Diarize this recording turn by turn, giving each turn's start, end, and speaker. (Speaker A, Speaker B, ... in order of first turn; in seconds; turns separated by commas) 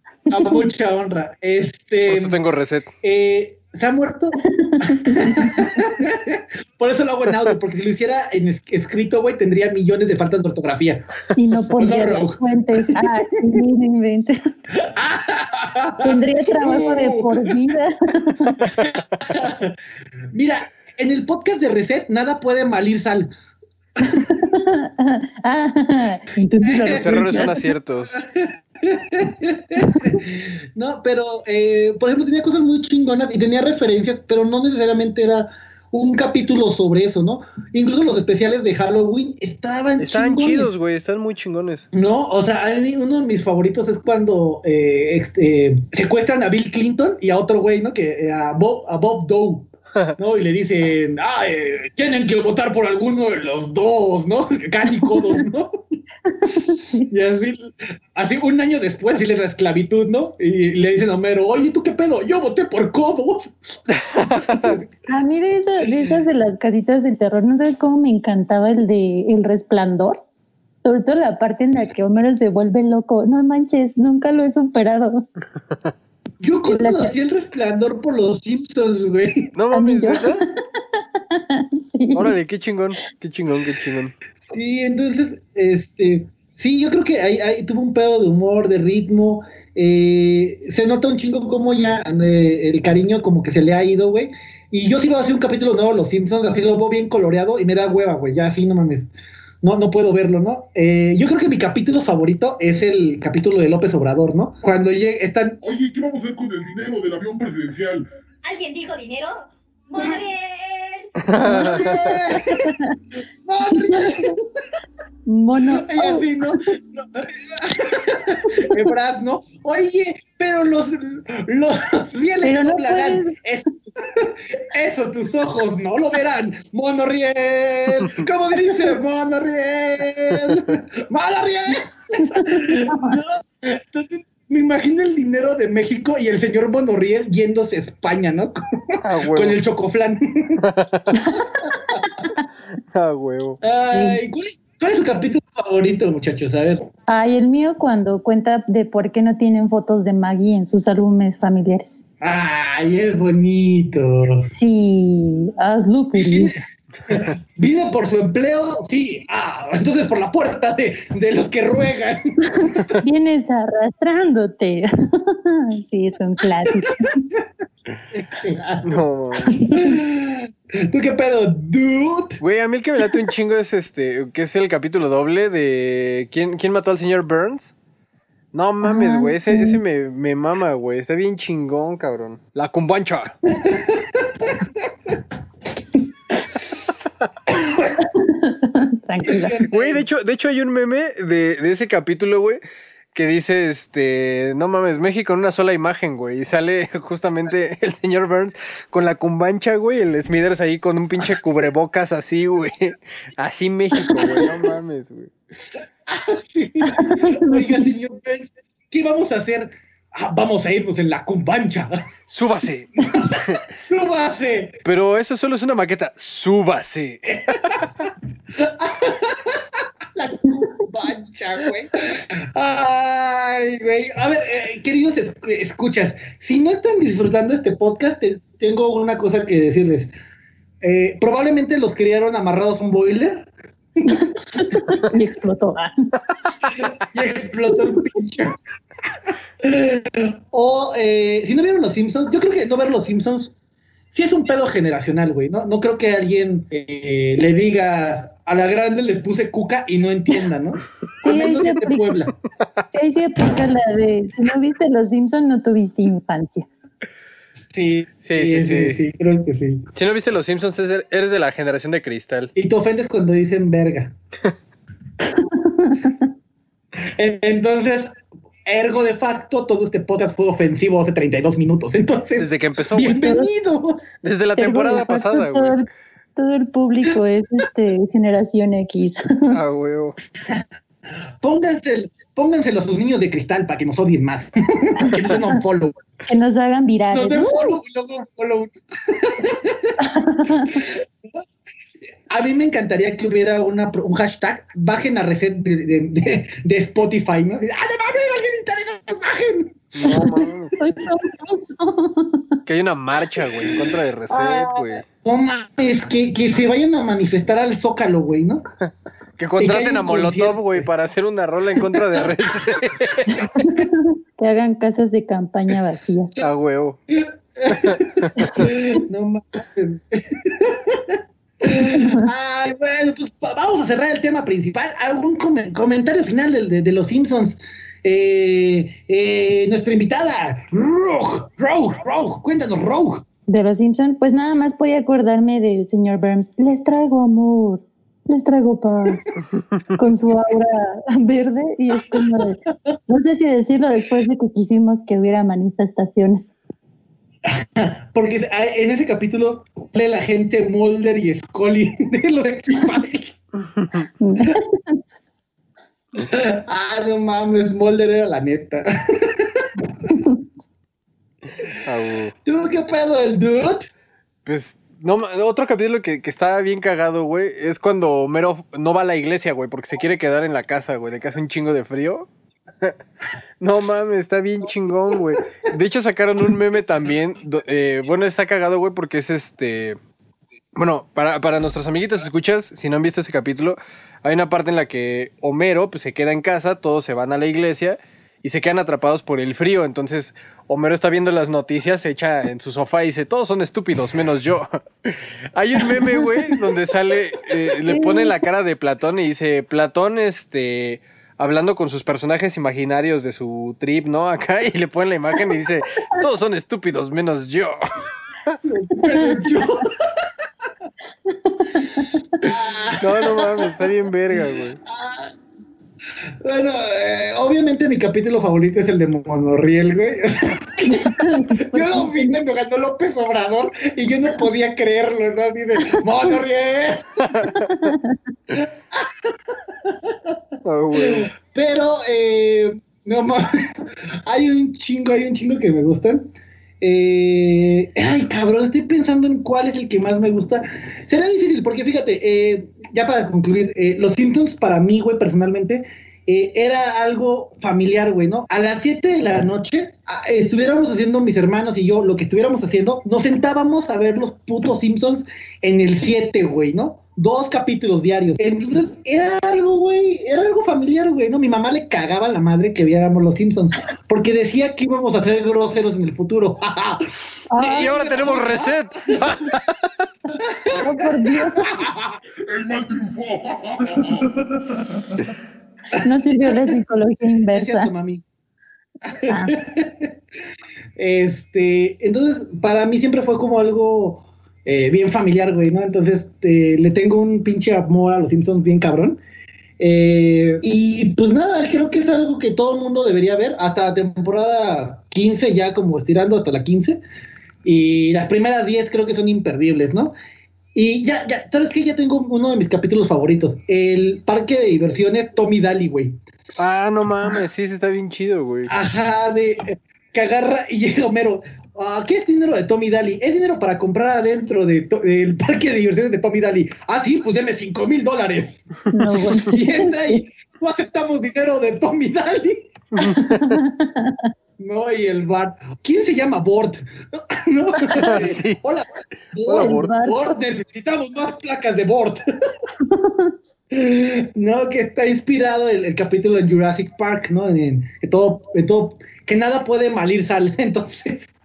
Speaker A: 0.3-2.4, Speaker B: 0.3-0.6, Speaker C: 2.1-2.9, Speaker A: 3.0-11.1, Speaker B: 4.4-5.8, Speaker B: 11.3-14.4, Speaker A: 11.8-13.0, Speaker A: 14.7-17.5, Speaker B: 16.0-18.6, Speaker A: 18.7-19.7, Speaker A: 20.3-23.3, Speaker B: 24.0-27.6, Speaker A: 26.6-27.5, Speaker C: 26.9-28.2, Speaker A: 28.1-40.7, Speaker C: 40.0-41.9, Speaker A: 41.9-55.8, Speaker B: 56.3-56.8, Speaker A: 56.4-63.5, Speaker C: 63.9-64.8, Speaker A: 64.3-64.8, Speaker B: 65.1-70.2, Speaker A: 65.8-66.2, Speaker B: 70.8-75.3, Speaker A: 76.4-79.5, Speaker B: 76.7-77.1, Speaker C: 79.5-80.4, Speaker B: 79.7-82.3, Speaker C: 82.1-84.1, Speaker A: 84.5-99.1, Speaker A: 99.6-105.6, Speaker D: 105.6-108.0, Speaker E: 108.4-111.2, Speaker C: 111.2-112.1, Speaker A: 111.4-112.6, Speaker B: 111.5-111.7, Speaker B: 112.5-112.9, Speaker A: 113.4-114.4, Speaker B: 113.7-114.2, Speaker B: 115.2-116.3, Speaker A: 115.7-138.6, Speaker B: 122.4-123.3, Speaker B: 132.2-133.2, Speaker C: 139.0-139.6, Speaker A: 139.3-140.6, Speaker C: 140.6-141.1, Speaker B: 141.2-141.6, Speaker A: 141.7-142.0, Speaker C: 142.9-143.6, Speaker A: 143.6-146.8, Speaker B: 143.9-144.2, Speaker B: 147.1-152.0, Speaker A: 152.2-154.5, Speaker B: 154.5-156.5, Speaker A: 156.2-156.5, Speaker A: 157.1-163.0, Speaker B: 163.0-167.2, Speaker A: 168.1-169.0, Speaker C: 168.8-169.6, Speaker B: 169.5-169.9, Speaker A: 169.7-172.4, Speaker C: 172.4-177.7, Speaker C: 178.5-183.4, Speaker B: 178.8-179.8, Speaker A: 183.6-184.7, Speaker B: 188.0-189.6, Speaker A: 189.3-190.0, Speaker C: 189.6-192.6, Speaker C: 193.1-205.3, Speaker A: 206.1-212.0, Speaker B: 206.9-207.8, Speaker C: 212.3-213.6, Speaker A: 213.1-214.8, Speaker C: 214.8-217.7, Speaker A: 217.3-217.9, Speaker A: 218.6-230.1, Speaker A: 230.8-233.5, Speaker B: 234.1-235.9, Speaker A: 234.1-234.6, Speaker A: 236.7-238.6, Speaker A: 239.6-243.5, Speaker A: 244.1-252.3, Speaker B: 251.2-252.2, Speaker B: 252.9-256.7, Speaker A: 257.7-259.9, Speaker C: 258.2-259.0, Speaker C: 259.9-262.5, Speaker A: 262.6-264.1, Speaker B: 265.3-266.2, Speaker A: 267.2-268.1, Speaker A: 268.7-274.0, Speaker C: 272.4-273.2, Speaker B: 273.0-273.5, Speaker C: 274.2-275.8, Speaker B: 274.6-279.6, Speaker C: 279.5-280.1, Speaker A: 281.4-286.0, Speaker B: 286.3-287.7, Speaker A: 287.1-289.9, Speaker B: 290.0-290.8, Speaker A: 292.3-300.1, Speaker C: 299.9-300.8, Speaker B: 300.8-302.5, Speaker C: 302.6-305.0, Speaker A: 304.3-308.6, Speaker C: 309.4-313.3, Speaker A: 309.6-310.8, Speaker B: 313.3-316.4, Speaker C: 316.4-317.0, Speaker A: 317.1-333.2, Speaker C: 317.7-318.0, Speaker B: 333.5-339.2, Speaker B: 339.9-342.6, Speaker A: 342.0-342.9, Speaker B: 343.1-346.5, Speaker A: 347.5-353.4, Speaker C: 353.8-354.0, Speaker B: 354.2-355.1, Speaker A: 356.2-359.7, Speaker B: 360.1-360.4, Speaker C: 361.8-362.3, Speaker A: 362.4-363.9, Speaker C: 364.4-372.3, Speaker C: 373.6-380.0, Speaker C: 380.7-407.8, Speaker B: 395.9-396.2, Speaker B: 397.7-398.4, Speaker A: 408.6-409.9, Speaker B: 409.0-409.6, Speaker B: 411.3-412.1, Speaker A: 412.4-413.7, Speaker C: 413.0-414.8, Speaker A: 414.9-415.3, Speaker A: 416.4-427.3, Speaker B: 420.9-422.3, Speaker C: 427.3-427.7, Speaker B: 427.5-428.1, Speaker A: 428.6-429.3, Speaker A: 429.9-430.3, Speaker C: 430.6-431.3, Speaker A: 431.0-433.7, Speaker A: 434.2-467.1, Speaker B: 467.5-468.0, Speaker C: 467.5-470.0, Speaker A: 467.7-469.2, Speaker A: 470.3-472.1, Speaker B: 470.7-471.8, Speaker D: 472.5-474.2, Speaker B: 476.0-477.9, Speaker A: 477.5-478.2, Speaker A: 479.1-480.1, Speaker B: 479.3-479.5, Speaker A: 481.0-489.2, Speaker A: 489.8-497.0, Speaker A: 497.6-500.1, Speaker A: 500.7-506.2, Speaker C: 506.6-508.7, Speaker A: 508.7-518.6, Speaker B: 518.9-520.2, Speaker A: 519.5-522.7, Speaker C: 522.9-523.6, Speaker B: 523.0-524.3, Speaker A: 524.6-532.2, Speaker C: 528.0-528.6, Speaker C: 529.5-530.0, Speaker B: 529.5-530.4, Speaker B: 532.8-533.4, Speaker A: 533.7-541.3